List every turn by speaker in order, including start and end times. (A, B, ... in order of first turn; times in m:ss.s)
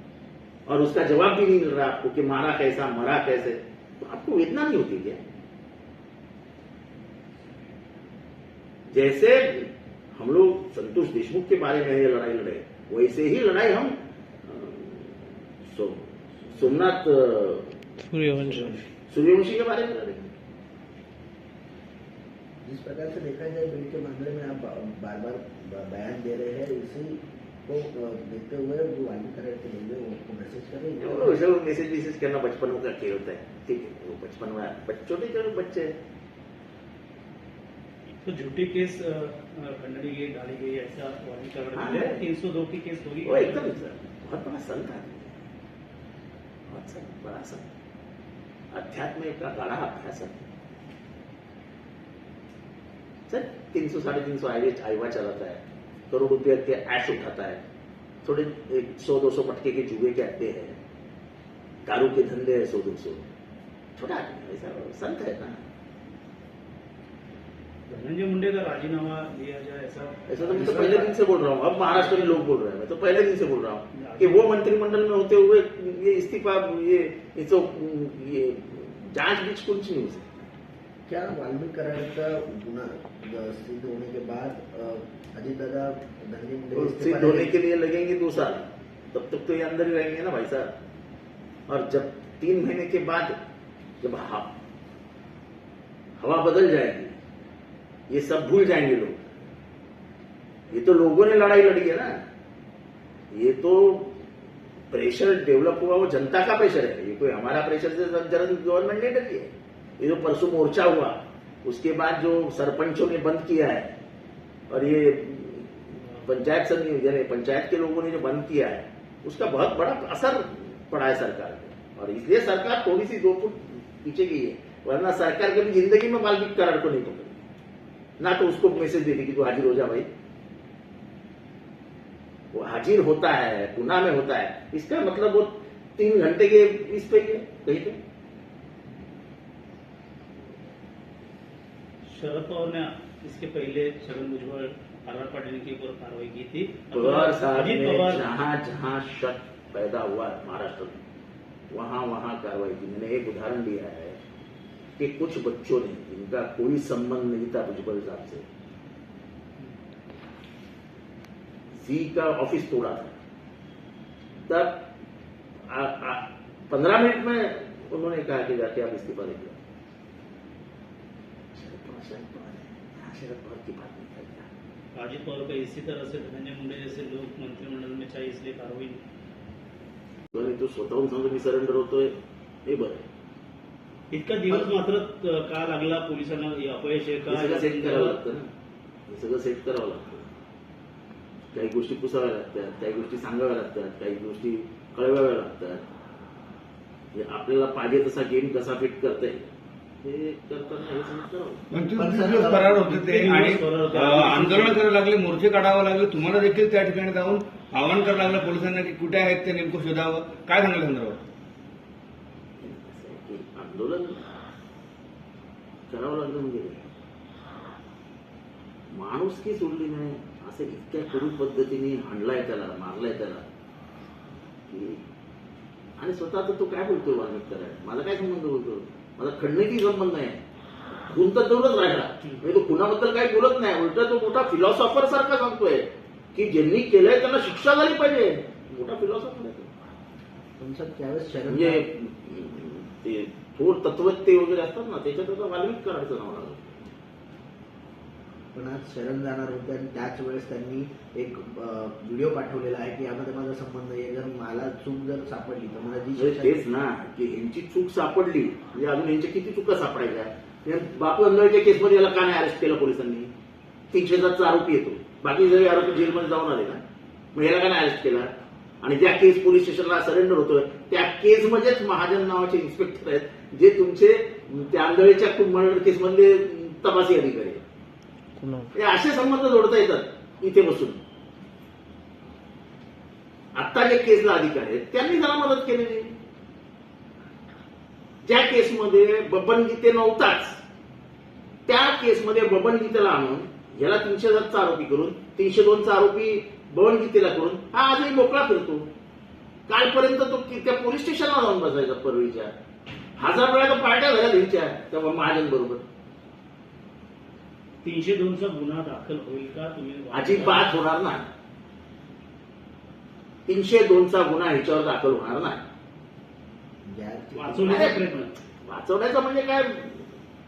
0:00.7-0:05.2 A
0:08.9-0:17.9 A
0:18.1-0:18.8 B
0:18.5-0:18.8 C
0:19.1-0:20.3 A
0:22.6-0:31.5 C
0:31.0-0:35.9 A
0:38.2-0:43.7 B
0:41.7-0:42.2 A
0:43.2-0:45.4 A
0:46.7-0:47.7 A
0:48.7-0:50.5 A
0:53.3-0:57.6 A
0:58.2-1:00.8 A
1:01.8-1:03.2 A
1:04.0-1:05.6 A
1:07.9-1:11.0 B
1:10.3-1:20.4 A
1:10.5-1:11.1 C
1:11.9-1:12.4 B
1:13.9-1:14.6 B
1:21.1-1:27.5 C
1:26.7-1:30.7 A
1:31.7-1:33.4 A
1:34.0-1:34.5 A
1:36.2-1:37.2 A
1:38.1-1:39.3 A
1:40.7-1:42.2 A
1:43.3-1:44.2 A
1:44.9-1:54.0 A
1:54.7-2:07.4 A
2:08.2-2:10.1 A
2:12.5-2:18.0 A
2:22.1-2:28.3 B
2:26.9-2:31.0 A
2:31.7-2:34.2 A
2:35.0-2:38.4 A
2:41.7-2:43.2 A
2:44.4-2:44.8 A
2:45.7-2:49.6 A
2:51.5-2:54.5 A
2:54.9-2:59.0 B
3:00.3-3:03.0 A
3:04.1-3:08.2 B
3:07.3-3:08.5 A
3:09.1-3:10.3 A
3:11.5-3:15.8 A
3:17.1-3:19.5 A
3:20.0-3:21.6 A
3:21.7-3:31.2 D
3:22.0-3:22.7 C
3:22.5-3:24.8 B
3:32.6-3:34.3 A
3:35.9-3:36.9 A
3:38.9-3:43.4 A
3:44.7-3:45.0 A
3:46.0-3:59.7 A
4:00.6-4:01.9 C
4:01.5-4:06.9 A
4:08.5-4:16.7 C
4:16.2-4:23.3 A
4:23.9-4:26.8 A
4:27.3-4:28.3 A
4:28.8-4:37.6 A
4:38.7-4:41.0 A
4:43.5-4:46.2 A
4:48.2-4:50.6 A
4:51.7-4:58.9 A
4:59.7-5:02.5 A
5:03.2-5:05.8 A
5:07.8-5:10.7 B
5:10.1-5:11.3 A
5:13.5-5:15.6 A
5:16.8-5:17.9 C
5:17.4-5:18.3 B
5:17.6-5:20.1 A